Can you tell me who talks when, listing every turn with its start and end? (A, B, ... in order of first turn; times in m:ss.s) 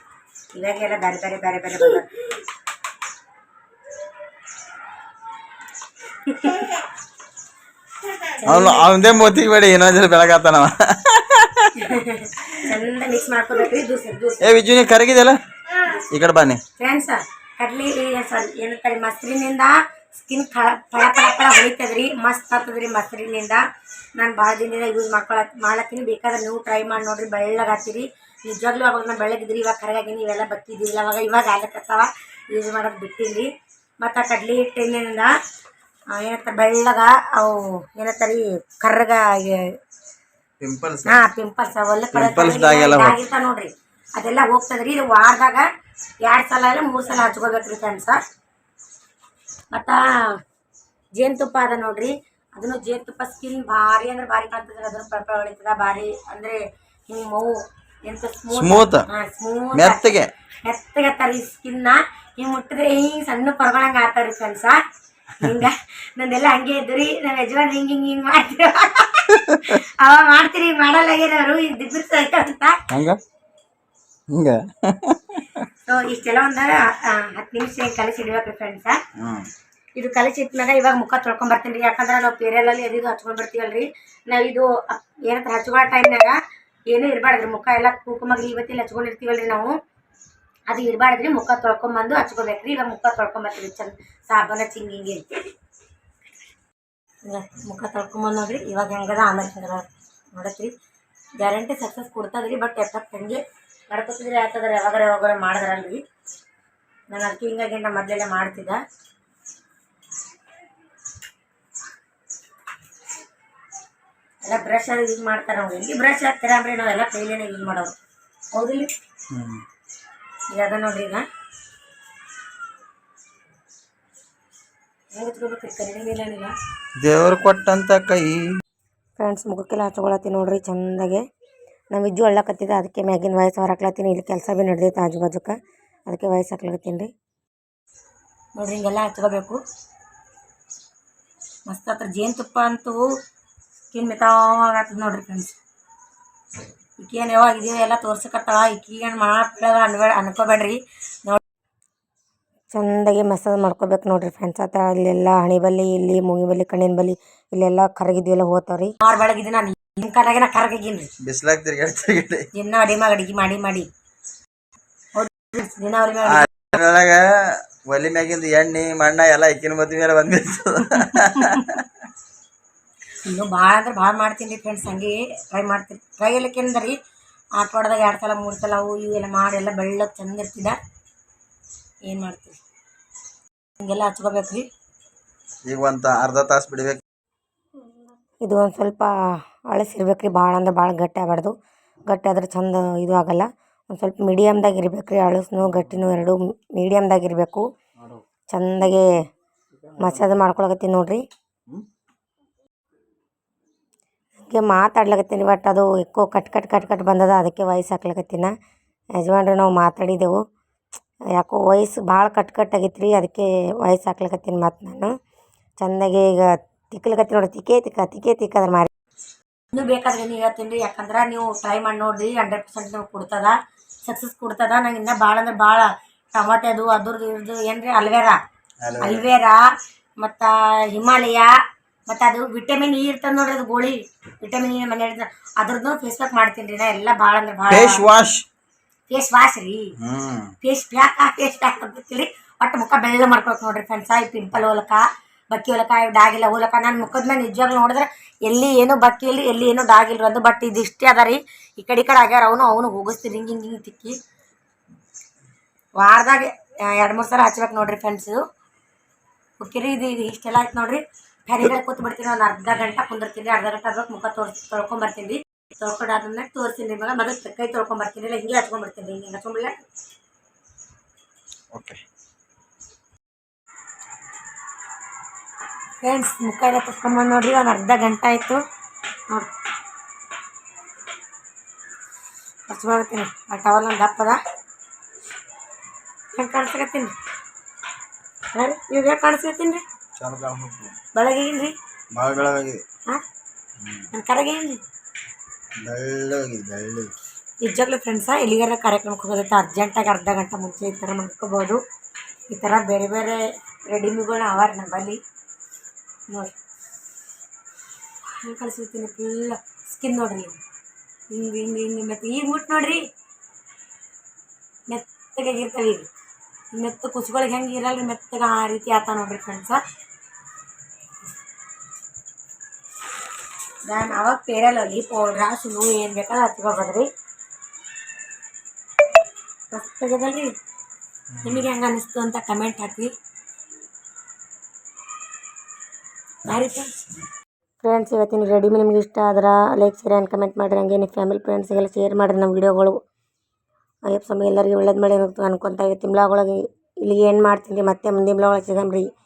0:00.5-0:02.1 A
0:06.2-0:06.8 A
0:08.3-0:08.9 A
0:08.4-0:11.8 B
0:11.8-0:14.6 A
0:14.4-0:16.6 B
0:16.8-0:23.6 A
0:24.2-0:35.3 A
0:36.1-0:39.8 A
0:40.6-0:41.2 B
0:41.0-0:45.7 A
0:42.1-0:43.2 B
0:46.2-0:48.2 A
0:49.7-0:50.4 A
0:51.2-1:04.8 A
0:58.5-0:59.0 B
0:59.7-1:00.3 B
1:05.4-1:12.8 A
1:09.3-1:09.8 B
1:12.9-1:13.2 B
1:14.3-1:15.7 B
1:15.9-1:19.0 A
1:19.2-1:19.5 B
1:20.0-1:26.4 A
1:26.9-1:29.8 A
1:30.7-1:35.4 A
1:37.2-1:40.7 A
1:41.4-1:46.0 A
1:47.1-1:48.8 A
1:54.4-1:58.0 A
1:58.5-1:58.9 A
1:59.3-1:59.6 B
2:00.5-2:01.2 A
2:05.1-2:06.5 A
2:07.0-2:08.5 B
2:09.2-2:11.2 A
2:11.9-2:17.1 A
2:18.6-2:19.6 A
2:21.7-2:23.1 A
2:23.9-2:25.6 A
2:27.0-2:31.4 A
2:32.7-2:41.1 A
2:41.2-2:42.4 B
2:42.5-2:43.9 A
2:45.1-2:46.5 A
2:46.2-2:51.9 B
2:51.2-2:51.6 A
2:53.2-2:57.0 A
2:57.6-3:00.8 A
3:02.1-3:02.6 A
3:03.8-3:04.7 A
3:05.6-3:07.0 B
3:08.4-3:11.6 A
3:12.1-3:17.6 A
3:18.5-3:19.2 A
3:20.0-3:21.2 A
3:24.4-3:28.5 A
3:29.2-3:30.4 A
3:31.3-3:35.1 A
3:35.8-3:38.9 A
3:39.7-3:48.4 A
3:48.8-3:49.2 B
3:49.0-3:49.6 A
3:50.2-3:51.5 A
3:52.1-3:58.0 A
3:57.7-3:58.4 B
3:59.1-3:59.9 A
4:00.0-4:00.5 B
4:00.6-4:14.2 A
4:16.0-4:18.4 A
4:19.6-4:29.8 A
4:31.7-4:32.0 B
4:36.0-4:38.6 A
4:42.7-4:44.4 A
4:46.3-4:47.1 A
4:48.5-4:49.8 A
4:50.2-4:51.0 B
4:51.1-4:51.8 A
4:52.1-4:52.8 B
4:53.8-4:54.1 B
4:54.1-4:54.8 A
4:55.8-4:57.1 B
4:57.6-5:01.8 A
5:02.5-5:05.2 A
5:06.3-5:06.6 A
5:08.2-5:10.6 A
5:11.3-5:13.1 A
5:14.9-5:16.1 A
5:16.7-5:19.8 A
5:23.9-5:27.1 A
5:29.7-5:30.5 A
5:31.3-5:31.6 B
5:31.4-5:33.1 A
5:36.4-5:37.1 A
5:37.8-5:43.0 A
5:44.1-5:49.1 A